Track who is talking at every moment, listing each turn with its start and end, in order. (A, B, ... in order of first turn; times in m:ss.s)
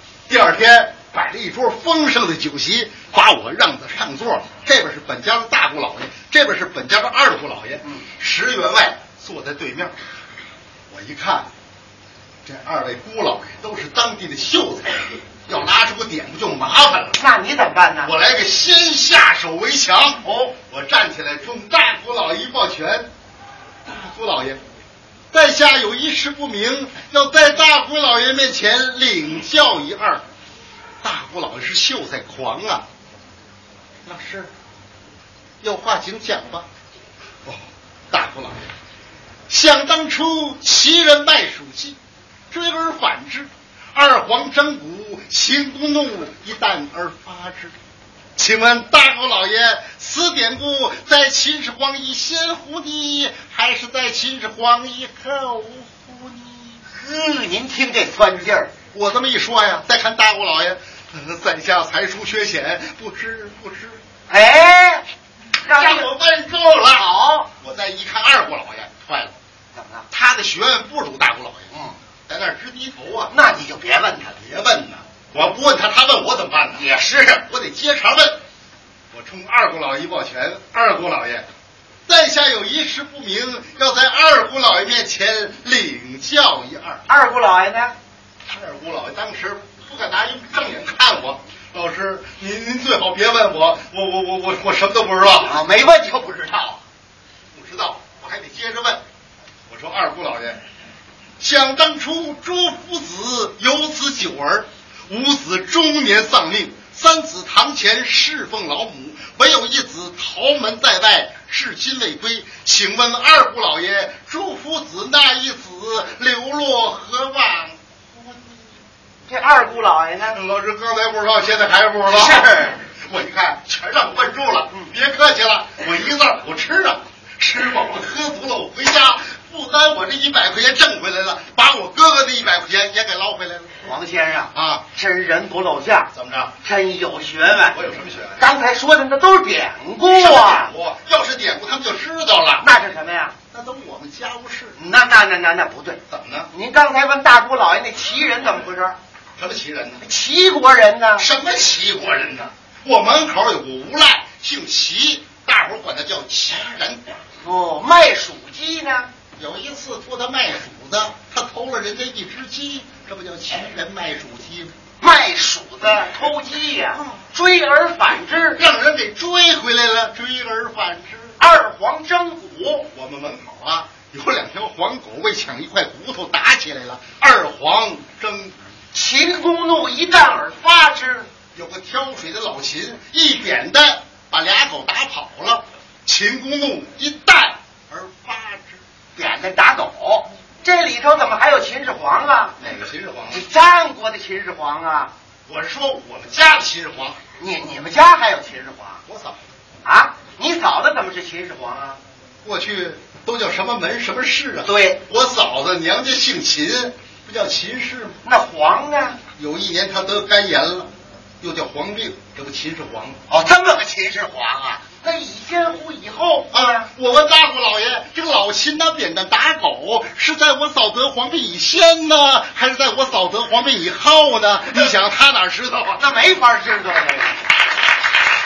0:00.3-0:10.0 A
0:10.9-0:11.5 A
0:12.4-0:17.2 A
0:17.2-0:18.1 B
0:18.0-0:23.1 A
0:20.2-0:20.6 B
0:23.8-0:24.6 A
0:25.3-0:30.2 A
0:31.0-0:32.8 A
0:34.0-0:34.5 A
0:35.6-0:36.7 A
0:37.4-0:38.6 A
0:39.5-0:42.0 A
0:42.5-0:47.7 A
0:48.4-0:56.8 A
0:56.9-0:58.7 B
0:58.9-1:04.0 A
1:04.3-1:05.0 B
1:05.6-1:06.1 B
1:05.6-1:07.0 A
1:06.9-1:07.5 B
1:07.6-1:09.3 A
1:09.7-1:10.1 B
1:10.1-1:11.7 A
1:11.7-1:12.0 B
1:12.3-1:13.3 A
1:13.3-1:14.4 B
1:14.4-1:16.8 A
1:16.7-1:17.4 B
1:17.4-1:18.4 A
1:19.1-1:21.5 A
1:22.1-1:27.0 A
1:27.1-1:28.0 B
1:28.5-1:35.6 A
1:35.4-1:36.8 B
1:37.5-1:39.0 A
1:39.7-1:40.6 A
1:41.4-1:58.6 A
1:59.3-2:00.4 B
2:00.3-2:13.8 A
2:02.1-2:02.8 B
2:13.8-2:16.1 B
2:14.5-2:14.8 A
2:16.1-2:16.5 A
2:16.6-2:17.8 B
2:17.7-2:18.4 A
2:18.4-2:20.7 B
2:20.1-2:22.6 A
2:22.6-2:23.3 B
2:23.5-2:24.8 A
2:24.8-2:26.0 B
2:26.1-2:26.5 A
2:26.5-2:29.0 B
2:29.4-2:30.0 A
2:30.0-2:31.3 B
2:31.2-2:37.0 A
2:37.4-2:39.1 B
2:39.4-2:44.7 A
2:45.0-2:48.6 B
2:48.6-2:51.4 A
2:51.4-2:52.9 B
2:52.9-2:58.6 A
2:58.9-3:01.3 B
3:01.5-3:08.8 A
3:09.1-3:12.6 B
3:12.6-3:13.4 A
3:13.3-3:15.1 B
3:15.5-3:17.2 A
3:17.4-3:19.0 B
3:19.0-3:19.4 A
3:19.8-3:22.0 B
3:22.4-3:28.2 A
3:24.6-3:25.0 B
3:28.2-3:29.2 B
3:29.3-3:30.9 A
3:31.4-3:33.2 A
3:33.3-3:36.9 B
3:36.5-3:46.0 A
3:46.0-3:47.5 B